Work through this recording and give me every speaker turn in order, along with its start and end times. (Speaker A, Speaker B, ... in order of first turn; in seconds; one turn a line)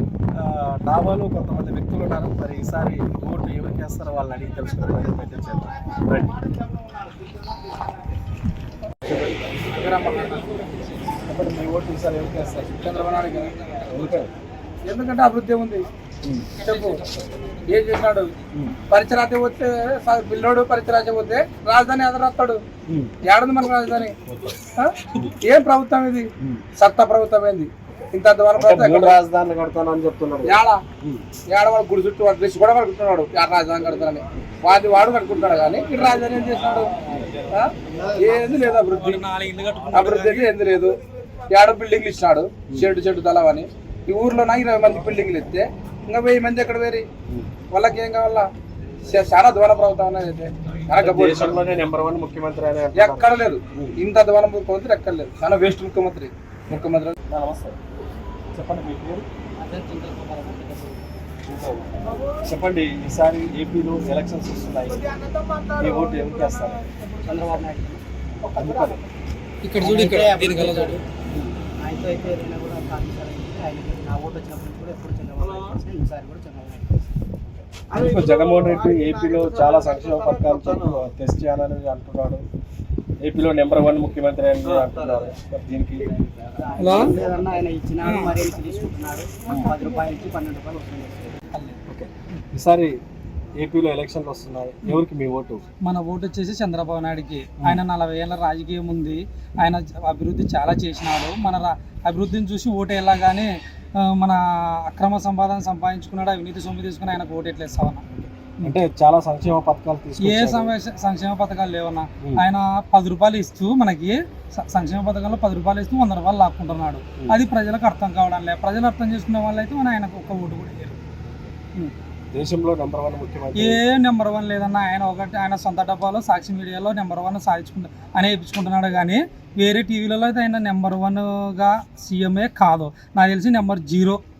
Speaker A: 0.3-6.4
Speaker B: 9.1-10.6
Speaker A: 11.2-12.8
Speaker B: 12.7-13.6
Speaker A: 13.8-14.3
Speaker B: 14.8-15.9
Speaker A: 16.2-16.5
Speaker C: 16.6-17.0
Speaker B: 16.6-17.1
Speaker B: 17.7-18.3
Speaker B: 18.9-22.6
Speaker A: 22.9-23.1
Speaker B: 23.2-24.1
Speaker A: 24.2-24.6
Speaker B: 24.8-29.2
Speaker A: 28.5-31.2
Speaker B: 30.4-30.8
Speaker B: 31.5-37.0
Speaker A: 36.7-38.2
Speaker B: 37.5-39.2
Speaker C: 38.9-40.5
Speaker B: 39.9-41.0
Speaker B: 41.5-47.0
Speaker B: 47.7-48.5
Speaker B: 49.0-51.6
Speaker A: 50.9-54.0
Speaker B: 52.9-57.1
Speaker A: 57.3-57.8
Speaker A: 58.5-59.2
Speaker D: 59.6-61.0
Speaker A: 61.5-66.9
Speaker D: 67.2-68.0
Speaker A: 68.4-69.0
Speaker C: 69.6-71.0
Speaker D: 69.8-71.0
Speaker D: 71.8-77.0
Speaker A: 77.5-82.4
Speaker A: 83.2-86.1
Speaker D: 86.5-91.4
Speaker C: 86.8-87.2
Speaker C: 88.0-88.3
Speaker C: 91.5-91.8
Speaker A: 91.9-93.0
Speaker A: 93.6-95.6
Speaker C: 95.8-108.1
Speaker A: 108.2-110.7
Speaker C: 110.2-121.0
Speaker A: 121.3-121.5
Speaker A: 122.3-123.8
Speaker C: 123.5-134.2